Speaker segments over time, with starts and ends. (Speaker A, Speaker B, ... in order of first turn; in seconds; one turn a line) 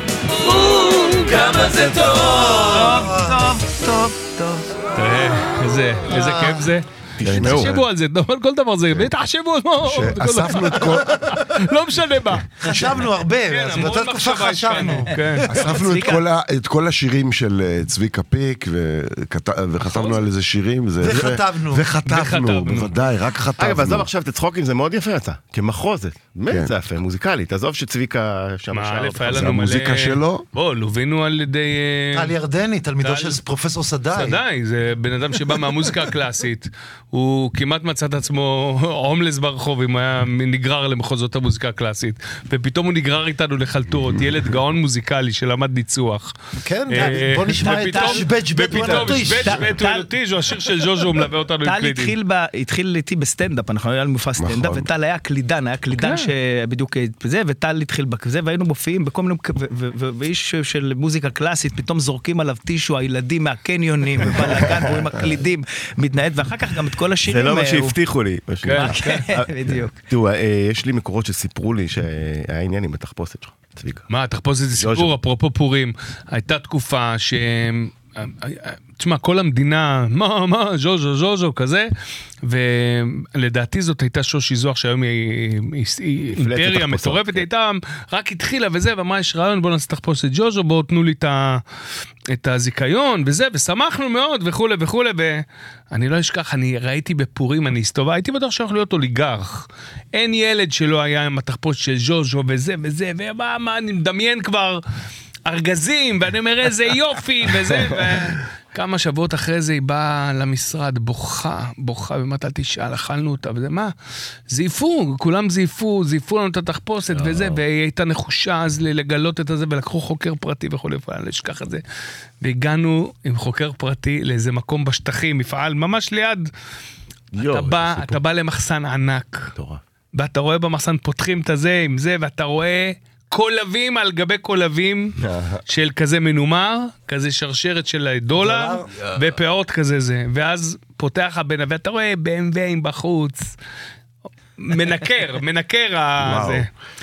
Speaker A: 0.3-3.0
Speaker B: 2.5-4.7
Speaker C: 2.6-3.5
Speaker D: 5.0-12.9
Speaker E: 7.2-7.8
Speaker F: 7.2-7.8
Speaker F: 9.8-11.4
Speaker C: 12.6-15.2
Speaker D: 13.5-15.5
Speaker B: 15.1-16.2
Speaker F: 15.4-24.1
Speaker C: 21.0-21.9
Speaker D: 22.1-22.9
Speaker E: 23.6-29.6
Speaker F: 26.5-26.7
Speaker D: 28.7-32.3
Speaker F: 29.3-30.4
Speaker C: 32.1-34.4
Speaker D: 33.0-33.4
Speaker D: 34.1-46.3
Speaker C: 46.6-49.6
Speaker D: 46.9-52.1
Speaker B: 47.6-50.1
Speaker B: 51.6-68.0
Speaker F: 54.4-54.9
Speaker D: 55.9-56.3
Speaker E: 67.2-74.1
Speaker D: 68.6-69.2
Speaker B: 68.7-70.0
Speaker D: 74.1-81.9
Speaker E: 74.8-75.1
Speaker D: 82.4-91.6
Speaker E: 86.3-87.5
Speaker D: 92.3-104.8
Speaker D: 105.5-113.9
Speaker D: 114.5-121.8
Speaker E: 117.1-117.6
Speaker D: 122.4-126.5
Speaker E: 127.3-128.2
Speaker D: 127.4-129.5
Speaker E: 129.6-129.8
Speaker D: 130.1-135.2
Speaker E: 135.2-135.6
Speaker D: 135.7-143.5
Speaker C: 138.4-138.8
Speaker D: 144.6-146.7
Speaker F: 146.2-146.7